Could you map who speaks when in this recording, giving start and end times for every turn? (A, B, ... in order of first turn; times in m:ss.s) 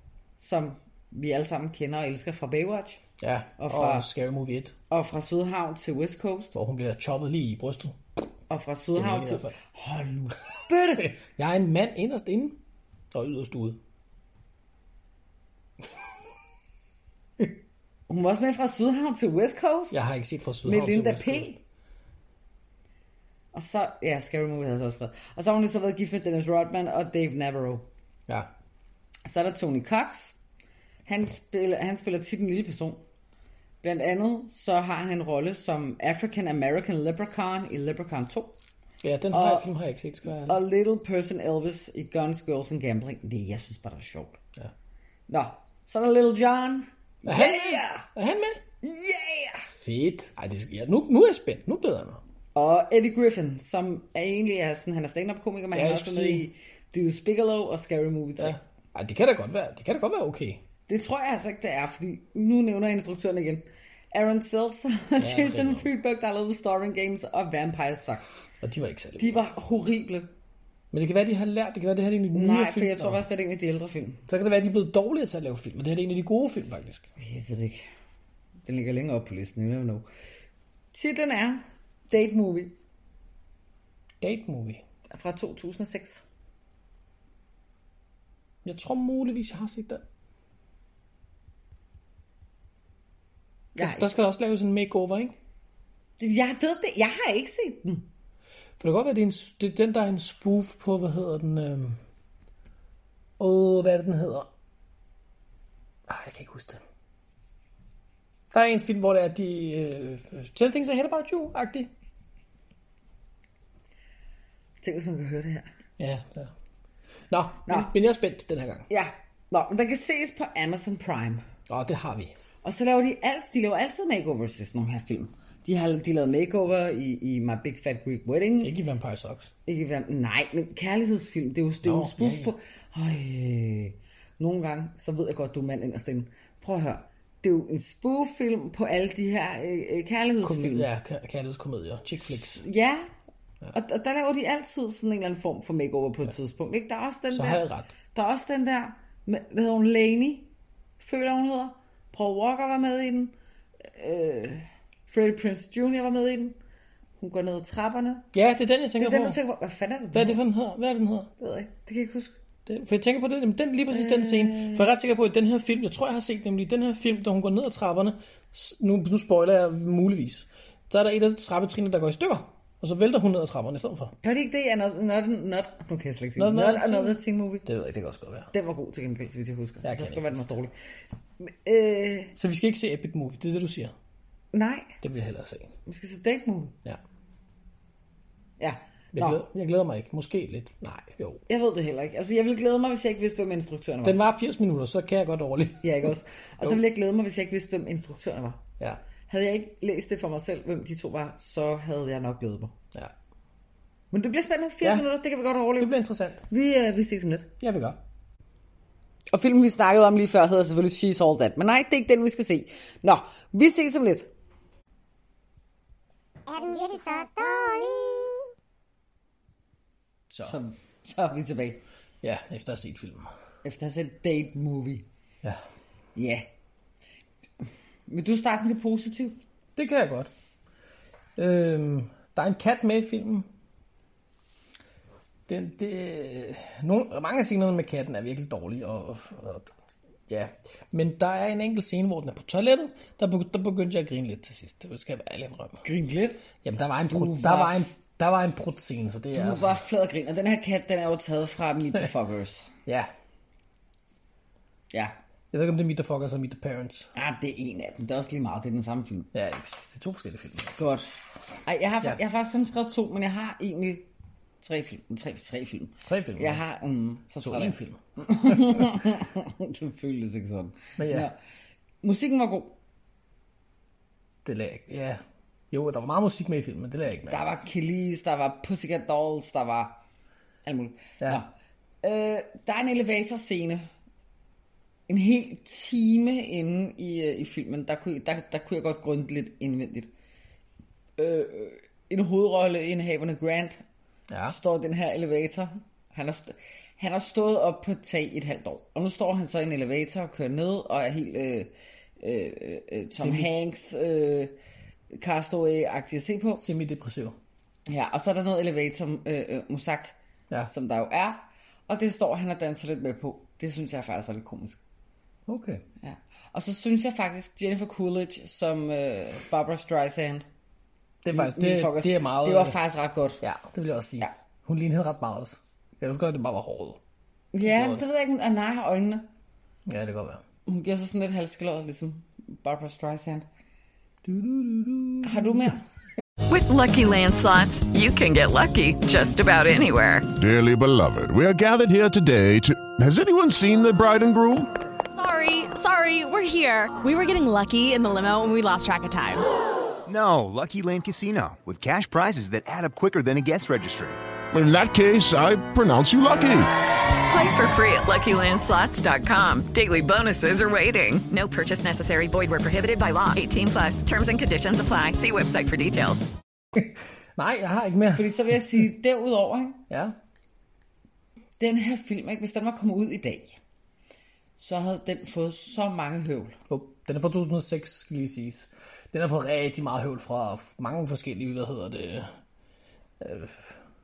0:00.4-0:03.0 A
0:03.2-0:04.8 B
0:03.6-0:04.1 A
0:04.9-0:06.6 A
0:06.5-0:08.0 B
0:08.5-0:11.1 A
0:09.0-0:09.6 B
0:11.0-0:12.6 B
0:13.1-0:13.8 B
0:18.1-0:20.0 A
0:19.9-0:21.5 B
0:20.6-0:21.6 A
0:23.5-0:27.9 A
0:29.3-0:30.4 A
0:31.1-0:33.0 A
0:33.8-0:38.6 A
0:39.0-0:40.6 B
0:39.3-0:39.7 A
0:40.4-0:44.4 A
0:45.3-0:48.1 A
0:47.2-0:48.6 B
0:48.8-0:49.7 A
0:49.8-0:52.2 B
0:52.6-0:58.6 A
0:55.7-0:56.5 B
0:58.4-1:00.6 B
1:00.9-1:08.4 A
1:05.2-1:05.9 B
1:08.6-1:09.4 B
1:09.2-1:10.3 A
1:10.9-1:13.2 B
1:12.3-1:14.2 A
1:14.3-1:17.1 B
1:17.2-1:17.9 A
1:18.7-1:20.1 A
1:20.9-1:22.8 A
1:24.2-1:24.8 B
1:25.1-1:26.2 A
1:28.6-1:30.0 B
1:33.8-1:34.1 A
1:33.8-1:35.4 B
1:36.2-1:38.1 A
1:38.8-1:42.0 B
1:43.4-1:44.5 B
1:46.1-1:46.8 B
1:48.5-1:51.9 B
1:54.8-1:55.7 A
1:56.0-1:56.5 B
1:57.3-1:58.9 B
1:57.7-1:57.9 A
1:58.9-2:01.4 A
2:01.7-2:02.4 B
2:02.6-2:08.7 A
2:08.6-2:09.5 B
2:09.7-2:20.9 A
2:11.8-2:12.5 B
2:20.4-2:22.6 B
2:22.2-2:23.1 A
2:23.7-2:30.5 A
2:27.3-2:27.9 B
2:31.0-2:33.3 A
2:33.9-2:36.6 A
2:37.2-2:38.3 A
2:38.3-2:39.4 B
2:39.0-2:40.4 A
2:40.1-2:41.3 B
2:41.4-2:42.4 A
2:42.7-2:54.2 B
2:43.9-2:44.9 A
2:54.2-2:57.7 A
2:56.4-2:58.5 B
2:58.5-3:00.7 A
2:59.8-3:00.5 B
3:01.4-3:02.3 A
3:02.4-3:03.9 B
3:04.5-3:05.0 A
3:05.0-3:05.7 B
3:05.9-3:06.8 A
3:08.6-3:09.4 A
3:09.1-3:11.4 B
3:11.5-3:14.2 A
3:14.0-3:16.1 B
3:15.8-3:18.6 A
3:19.3-3:22.7 A
3:24.1-3:25.9 A
3:25.8-3:26.4 B
3:26.5-3:27.5 A
3:27.6-3:28.0 B
3:29.3-3:34.3 A
3:36.5-3:38.4 C
3:40.4-3:41.8 A
3:42.2-3:43.3 B
3:43.6-3:45.1 A
3:46.2-3:46.4 A
3:48.1-3:49.4 A
3:49.8-3:50.3 B
3:51.4-3:53.5 B
3:55.5-3:59.8 B
4:00.3-4:05.8 B
4:05.8-4:06.4 A
4:06.6-4:09.8 B
4:07.1-4:07.9 A
4:09.3-4:12.7 A
4:12.9-4:13.1 B
4:15.5-4:17.1 B
4:17.2-4:19.3 A
4:19.3-4:20.8 B
4:20.8-4:21.1 A
4:21.7-4:24.1 A
4:24.6-4:31.4 A
4:26.0-4:26.6 B
4:27.4-4:29.0 B
4:31.0-4:31.3 B
4:32.0-4:32.8 A
4:34.4-4:37.5 B
4:37.3-4:40.0 A
4:40.6-4:41.5 A
4:42.0-4:43.9 A
4:45.1-4:50.1 A
4:51.2-4:53.8 A
4:54.3-4:54.6 B
4:54.5-5:04.6 A
5:03.2-5:03.5 B
5:05.1-5:06.6 A
5:06.6-5:07.4 B
5:07.9-5:10.1 A
5:10.7-5:14.8 A
5:15.5-5:15.8 B
5:16.0-5:20.5 A
5:21.2-5:22.8 B
5:21.3-5:23.4 A
5:23.4-5:27.0 B
5:27.5-5:29.3 A
5:27.6-5:28.0 B
5:29.9-5:30.4 B
5:30.7-5:33.5 A
5:34.2-5:35.7 B
5:35.2-5:35.8 A
5:36.5-5:40.3 D
5:40.4-5:44.7 E
5:45.1-5:49.4 F
5:50.1-5:54.2 G
5:54.5-5:56.7 E
5:57.2-6:06.3 D
6:06.8-6:08.8 B
6:08.1-6:09.8 A
6:09.9-6:10.2 B
6:11.6-6:13.6 A
6:14.6-6:16.6 A
6:16.7-6:22.3 B
6:23.2-6:23.8 B